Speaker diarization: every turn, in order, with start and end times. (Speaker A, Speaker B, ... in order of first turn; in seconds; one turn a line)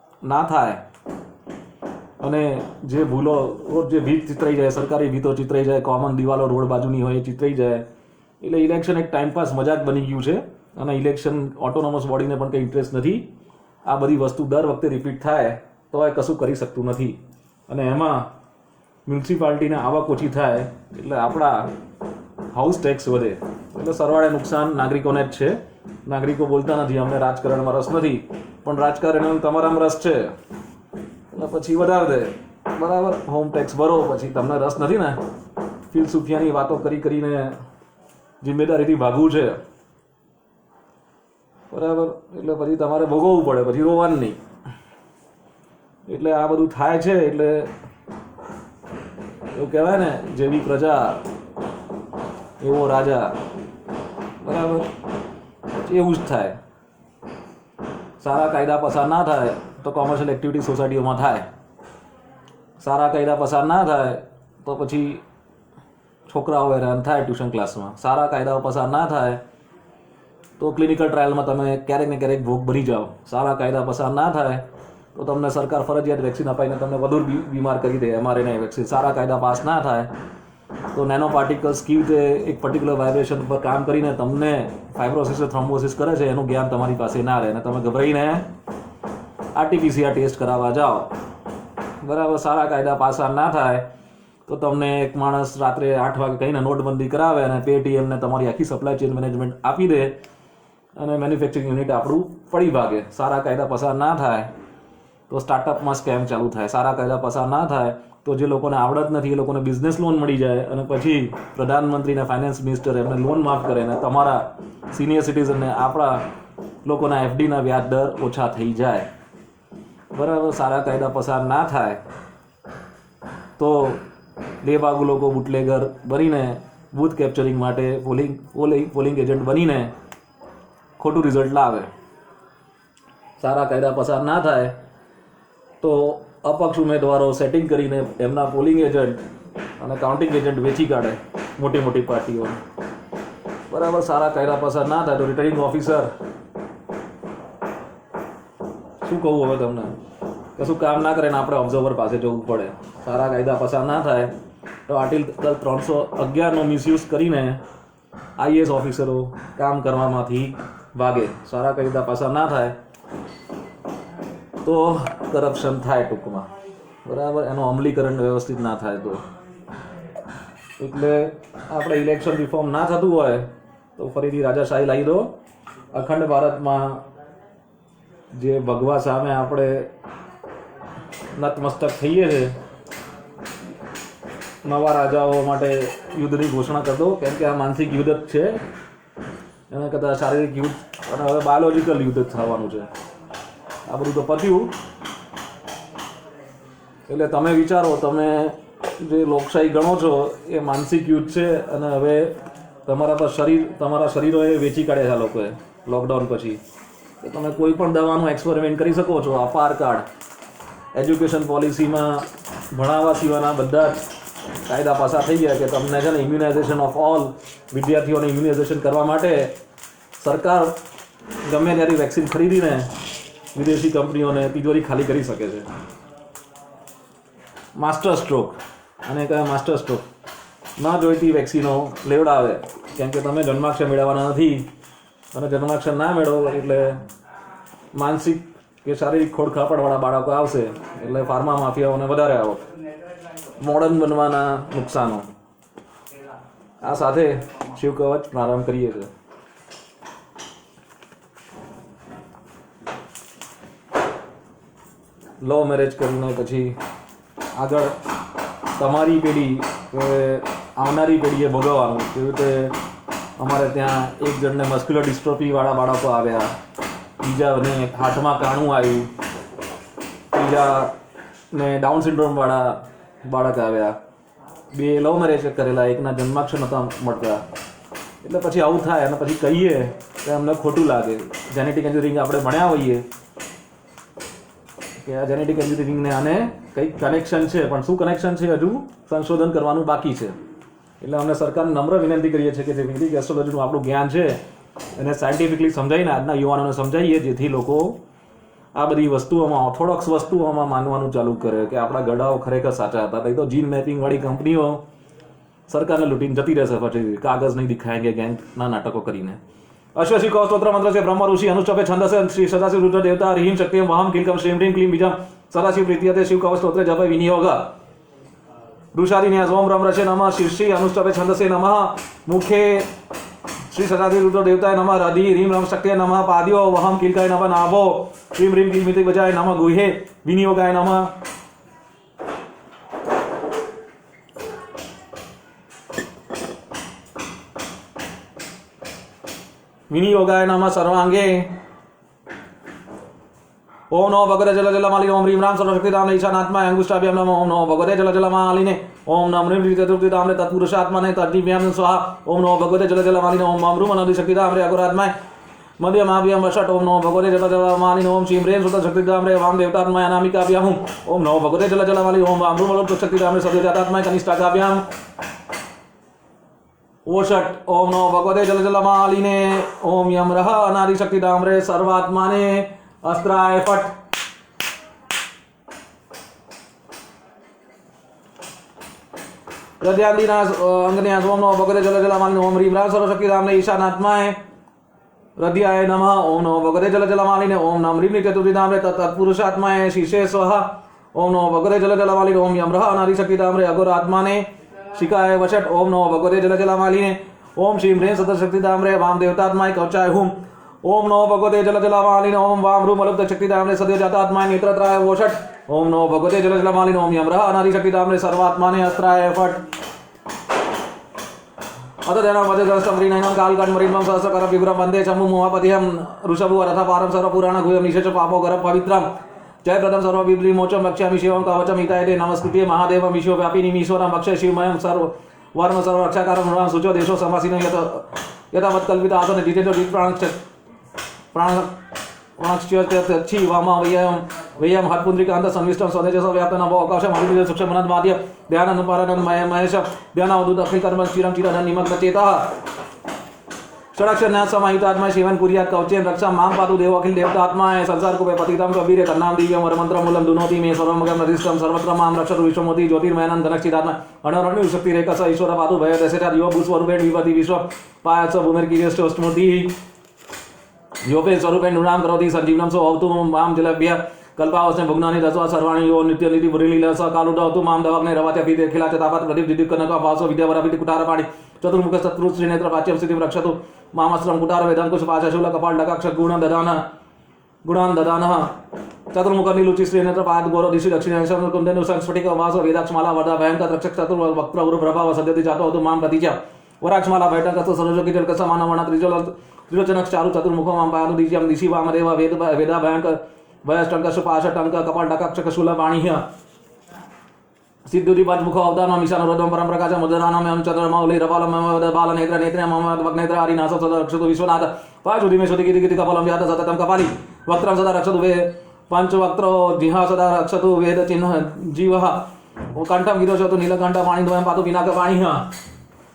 Speaker A: 0.2-0.8
Speaker A: 2.2-7.8
Speaker A: 8.4-13.3
Speaker A: 13.8-18.3
Speaker A: 19.1-21.7
Speaker A: 22.5-30.3
Speaker A: 31.3-35.2
Speaker A: 35.9-37.6
Speaker A: 38.4-39.6
Speaker A: 41.7-44.4
Speaker A: 46.1-47.7
Speaker A: 49.5-51.2
Speaker A: 52.6-53.4
Speaker A: 54.4-54.9
Speaker A: 55.8-56.6
Speaker A: 58.2-61.5
Speaker A: 62.8-65.2
Speaker A: 66.3-69.4
Speaker A: 70.6-80.1
Speaker A: 80.9-88.5
Speaker A: 89.5-91.1
Speaker A: 92.0-93.9
Speaker A: 94.5-100.2
Speaker A: 101.0-104.5
Speaker A: 105.3-116.2
Speaker A: 116.8-119.1
Speaker A: 120.1-122.0
Speaker A: 123.6-124.0
Speaker A: 124.6-129.9
Speaker A: 131.0-131.9
Speaker A: 133.4-134.8
Speaker A: 135.8-139.2
Speaker A: 139.8-142.6
Speaker A: 143.7-146.1
Speaker A: 149.0-149.9
Speaker A: 150.6-154.3
Speaker A: 154.9-157.6
Speaker A: 158.4-162.8
Speaker A: 164.6-166.5
Speaker A: 167.0-169.2
Speaker A: 170.8-175.3
Speaker A: 175.9-177.0
Speaker A: 178.3-179.9
Speaker A: 181.3-182.5
Speaker A: 184.6-188.6
Speaker A: 189.7-192.9
Speaker A: 193.8-194.7
Speaker A: 197.1-206.6
Speaker A: 207.2-210.1
Speaker A: 210.9-214.0
Speaker A: 214.7-219.6
Speaker A: 220.2-220.8
Speaker A: 221.4-222.9
Speaker A: 223.5-225.7
Speaker A: 227.8-230.0
Speaker A: 230.8-234.7
Speaker A: 235.3-237.0
Speaker A: 237.9-242.7
Speaker A: 243.6-245.3
Speaker A: 246.8-249.1
Speaker A: 255.4-256.8
Speaker A: 257.5-258.0
Speaker A: 258.8-262.8
Speaker A: 263.4-266.5
Speaker A: 267.2-269.1
Speaker A: 270.3-270.9
Speaker A: 271.5-274.0
Speaker A: 274.7-277.4
Speaker A: 278.2-283.0
Speaker A: 285.0-290.4
Speaker A: 291.0-294.4
Speaker A: 294.9-298.0
Speaker A: 298.7-304.8
Speaker A: 305.7-309.4
Speaker A: 309.9-317.7
Speaker A: 318.9-322.9
Speaker A: 323.7-331.1
Speaker A: 339.9-341.6
Speaker A: 343.9-355.1
Speaker A: 355.8-364.8
Speaker A: 367.1-373.9
Speaker A: 379.8-384.4
Speaker A: 385.4-409.6
Speaker A: 412.0-430.4
Speaker A: 431.3-431.8
Speaker A: 432.4-442.6
Speaker A: 443.9-459.7
Speaker A: 461.0-476.9
Speaker A: 477.6-478.5
Speaker A: 479.1-496.3
Speaker A: 497.9-515.5